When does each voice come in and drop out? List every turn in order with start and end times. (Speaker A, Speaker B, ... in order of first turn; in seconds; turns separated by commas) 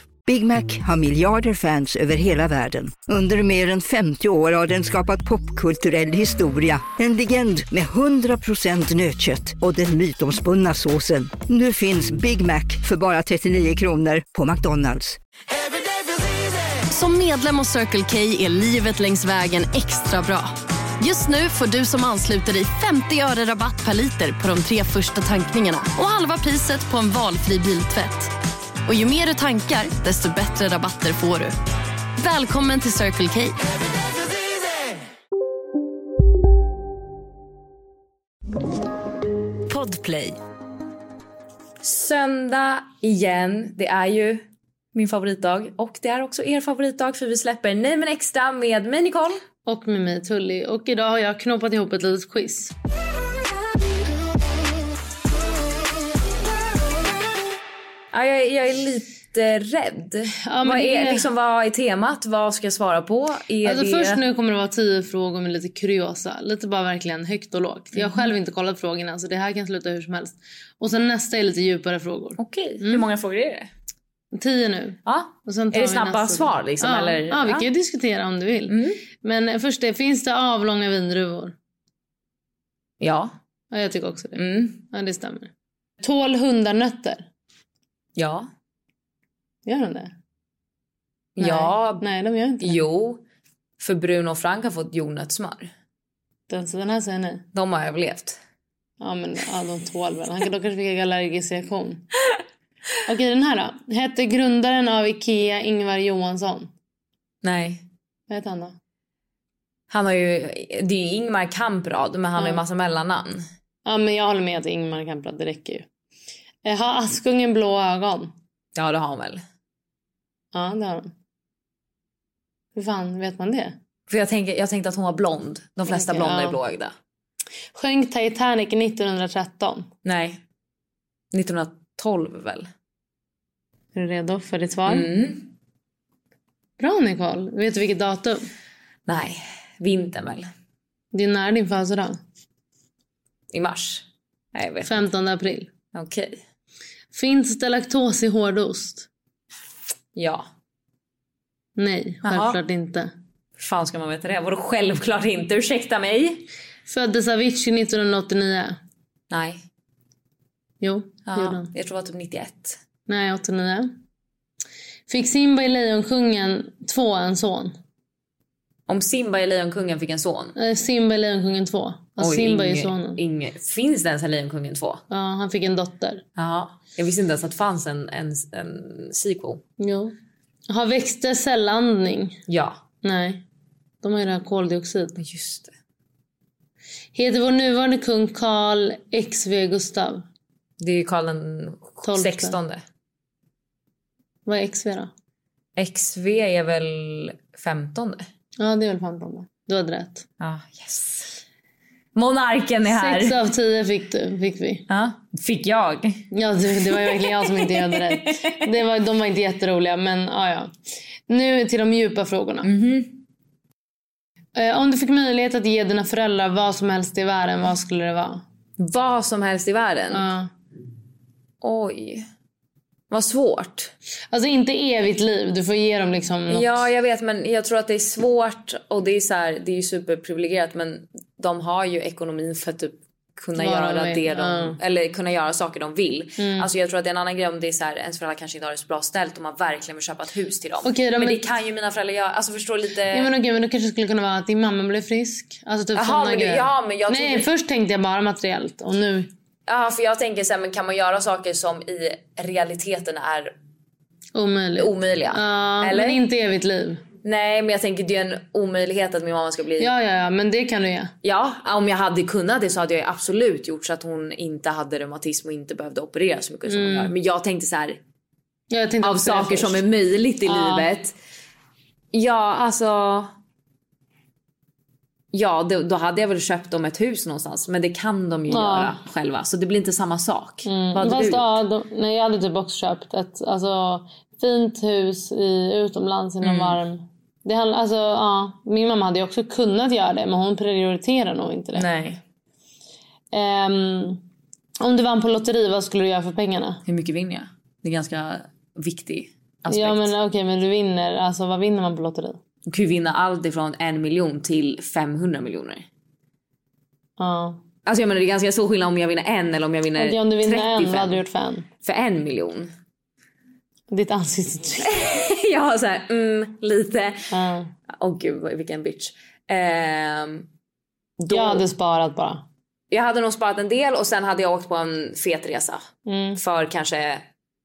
Speaker A: 0.3-15.1, Speaker B: 16.9-28.3, Speaker B: 28.9-31.6, Speaker B: 32.2-33.6, Speaker C: 39.7-40.4, Speaker C: 41.8-44.4, Speaker C: 44.9-49.4, Speaker D: 49.7-52.7, Speaker C: 58.1-64.2, Speaker D: 60.4-61.3, Speaker D: 63.6-73.1, Speaker C: 68.0-68.3, Speaker C: 72.4-73.7, Speaker D: 74.3-81.5, Speaker C: 75.1-77.7, Speaker C: 78.7-79.0, Speaker C: 83.0-83.3, Speaker D: 83.7-87.2, Speaker C: 84.4-84.8, Speaker C: 88.2-88.5, Speaker D: 89.7-90.1, Speaker C: 91.4-92.0, Speaker D: 91.4-92.8, Speaker C: 92.6-93.2, Speaker C: 93.8-95.7, Speaker D: 96.5-97.5, Speaker C: 97.5-98.4, Speaker D: 99.0-102.1, Speaker D: 103.0-106.7, Speaker C: 107.4-107.8, Speaker D: 108.3-108.8, Speaker C: 109.9-113.4, Speaker D: 112.4-112.6, Speaker D: 113.8-115.8, Speaker D: 116.6-118.3, Speaker C: 118.8-119.4, Speaker D: 120.5-121.1, Speaker D: 122.8-123.8, Speaker C: 124.1-126.9, Speaker D: 125.9-126.6, Speaker D: 127.7-129.9, Speaker C: 130.1-130.4, Speaker C: 131.3-132.7, Speaker D: 133.9-135.1, Speaker C: 134.9-135.5, Speaker D: 136.8-138.4, Speaker C: 139.1-140.5, Speaker D: 141.1-142.2, Speaker C: 143.5-145.0, Speaker D: 144.8-145.7, Speaker C: 145.9-146.4, Speaker D: 147.1-149.1, Speaker C: 150.2-150.4, Speaker D: 151.8-153.1, Speaker C: 152.2-152.6, Speaker C: 153.6-156.5, Speaker D: 156.9-158.8, Speaker C: 159.3-159.6, Speaker D: 160.8-161.7, Speaker C: 161.3-162.8, Speaker D: 163.1-163.9, Speaker D: 165.1-167.8, Speaker C: 168.9-170.5, Speaker D: 170.6-173.2, Speaker C: 172.2-175.0, Speaker D: 175.1-176.2, Speaker C: 176.4-179.6, Speaker D: 179.8-180.2, Speaker D: 180.7-182.4, Speaker C: 182.5-182.8, Speaker D: 183.0-183.4, Speaker D: 184.0-185.2, Speaker C: 185.2-185.7, Speaker D: 187.2-190.2, Speaker C: 190.8-192.8, Speaker D: 192.0-192.6, Speaker D: 194.5-195.1, Speaker C: 195.8-198.2, Speaker D: 198.6-200.2, Speaker C: 200.4-201.4, Speaker C: 202.2-203.4, Speaker D: 202.9-204.9, Speaker C: 204.9-206.2, Speaker D: 206.3-210.7, Speaker C: 206.9-208.5, Speaker D: 211.3-212.7, Speaker C: 212.6-213.2, Speaker D: 214.6-218.4, Speaker C: 218.8-220.3, Speaker D: 220.1-220.5, Speaker C: 221.6-222.2, Speaker C: 223.1-223.9, Speaker D: 224.3-226.8, Speaker C: 226.5-243.3, Speaker D: 233.6-234.8, Speaker D: 236.4-236.7, Speaker D: 240.8-241.4, Speaker D: 243.1-249.3, Speaker C: 245.9-247.5, Speaker C: 249.7-253.6, Speaker D: 254.3-257.0, Speaker C: 254.8-256.2, Speaker C: 257.2-259.9, Speaker D: 259.8-261.1, Speaker C: 261.2-268.0, Speaker D: 266.7-267.1, Speaker D: 268.7-269.9, Speaker C: 269.0-271.1, Speaker D: 270.4-270.9, Speaker C: 272.1-273.3, Speaker C: 275.3-281.6, Speaker D: 278.5-278.9, Speaker D: 280.6-291.9, Speaker C: 286.4-286.8, Speaker C: 291.7-292.2, Speaker D: 293.3-294.2, Speaker D: 294.8-296.8, Speaker C: 296.9-300.1, Speaker D: 299.7-302.4, Speaker C: 302.7-305.9, Speaker D: 307.2-307.6, Speaker C: 307.9-311.2, Speaker D: 310.0-311.7, Speaker C: 311.8-312.7, Speaker D: 313.9-314.9, Speaker C: 314.8-317.2, Speaker D: 317.3-317.7, Speaker C: 317.9-320.5, Speaker C: 321.2-321.6, Speaker D: 321.3-322.4, Speaker C: 322.9-325.8, Speaker D: 326.1-326.4, Speaker C: 326.4-327.3